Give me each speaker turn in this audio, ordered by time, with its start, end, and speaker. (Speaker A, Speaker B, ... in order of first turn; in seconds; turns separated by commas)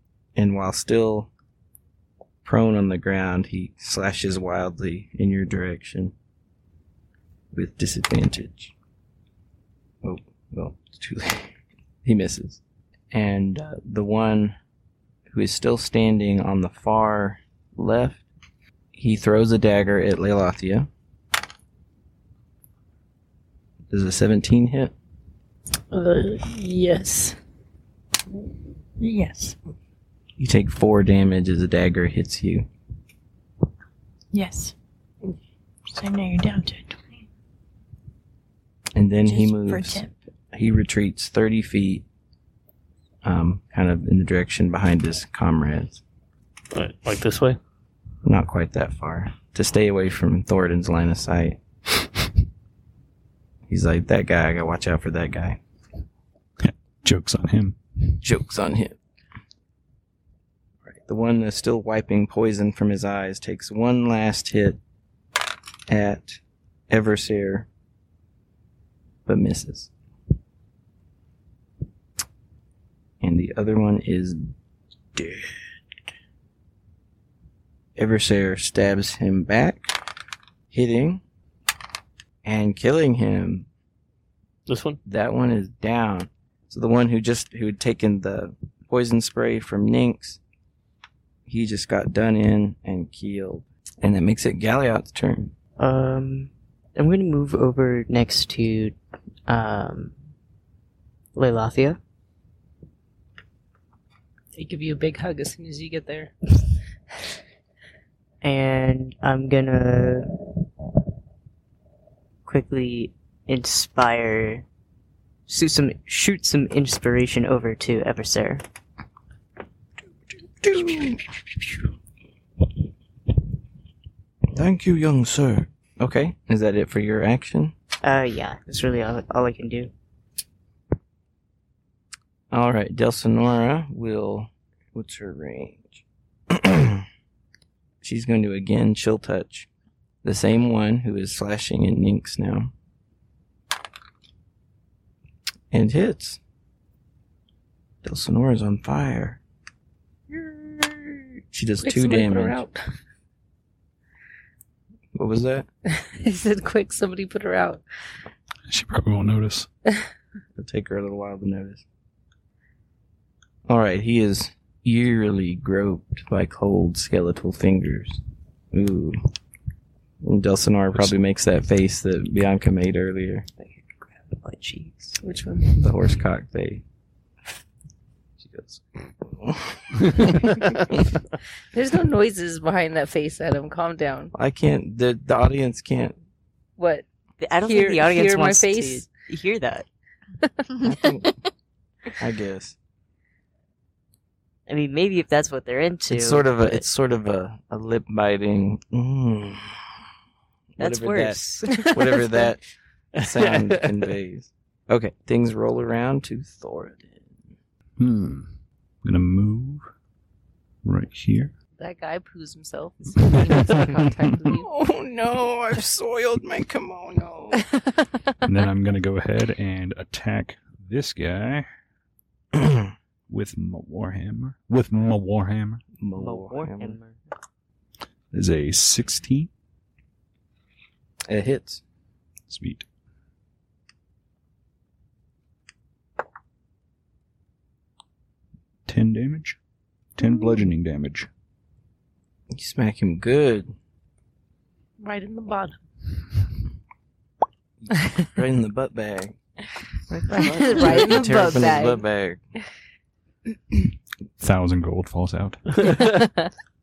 Speaker A: 0.3-1.3, Speaker A: 2.4-6.1, Speaker A: 7.5-8.7, Speaker A: 10.0-12.6, Speaker A: 13.1-14.6, Speaker A: 15.3-18.2, Speaker A: 18.9-20.9, Speaker A: 23.9-24.9, Speaker B: 25.9-27.4, Speaker C: 29.0-29.6, Speaker A: 30.4-32.7, Speaker C: 34.3-34.8, Speaker C: 35.9-37.2, Speaker A: 39.0-40.0, Speaker C: 39.2-40.1, Speaker A: 40.5-42.0, Speaker A: 43.2-46.0, Speaker D: 46.7-47.6, Speaker A: 48.2-51.6, Speaker A: 53.7-55.6, Speaker E: 56.6-57.8, Speaker A: 58.2-59.0, Speaker A: 60.9-64.8, Speaker A: 65.9-67.7, Speaker A: 69.3-69.9, Speaker A: 73.2-74.5, Speaker A: 75.2-75.5, Speaker A: 78.0-80.0, Speaker A: 80.7-81.2, Speaker A: 82.4-83.7, Speaker D: 84.7-85.0, Speaker A: 85.0-90.4, Speaker A: 91.5-95.5, Speaker F: 95.8-99.0, Speaker F: 99.5-100.1, Speaker F: 101.3-102.0, Speaker B: 104.5-106.3, Speaker F: 108.4-110.4, Speaker F: 112.5-114.7, Speaker F: 115.5-118.6, Speaker A: 120.6-121.8, Speaker A: 124.5-127.7, Speaker F: 128.0-129.9, Speaker A: 132.5-137.1, Speaker A: 138.0-139.7, Speaker A: 140.2-142.7, Speaker A: 145.7-146.4, Speaker A: 148.0-149.4, Speaker A: 150.3-152.6, Speaker B: 151.8-152.8, Speaker A: 155.1-155.7, Speaker B: 155.9-157.8, Speaker E: 158.7-159.7, Speaker A: 160.6-161.8, Speaker A: 163.7-168.2, Speaker A: 168.7-169.2, Speaker A: 170.2-173.5, Speaker F: 173.6-175.2, Speaker B: 175.2-175.8, Speaker A: 175.8-176.8, Speaker A: 178.4-181.0, Speaker B: 181.7-184.3, Speaker A: 184.3-186.2, Speaker B: 186.8-187.0, Speaker F: 187.4-189.9, Speaker B: 187.6-189.1, Speaker A: 190.8-191.3, Speaker A: 192.2-192.8, Speaker F: 194.7-196.9, Speaker A: 196.1-199.8, Speaker A: 200.8-202.6, Speaker F: 200.8-202.0, Speaker B: 201.8-202.4, Speaker A: 203.2-207.3, Speaker D: 203.2-204.1, Speaker E: 208.0-208.5, Speaker E: 209.0-209.8, Speaker E: 210.8-211.5, Speaker B: 211.8-214.7, Speaker E: 213.3-214.3, Speaker A: 214.5-217.7, Speaker E: 218.4-221.7, Speaker E: 223.3-225.8, Speaker A: 226.0-227.0, Speaker F: 226.2-227.2, Speaker E: 228.3-229.5, Speaker A: 231.3-231.8, Speaker E: 232.5-232.9, Speaker E: 238.9-239.6, Speaker E: 240.2-241.3, Speaker A: 242.5-243.7, Speaker B: 245.0-245.8, Speaker A: 247.8-249.4, Speaker F: 250.1-251.3, Speaker B: 250.3-252.0, Speaker A: 250.7-252.4, Speaker E: 254.4-255.6, Speaker B: 256.1-256.5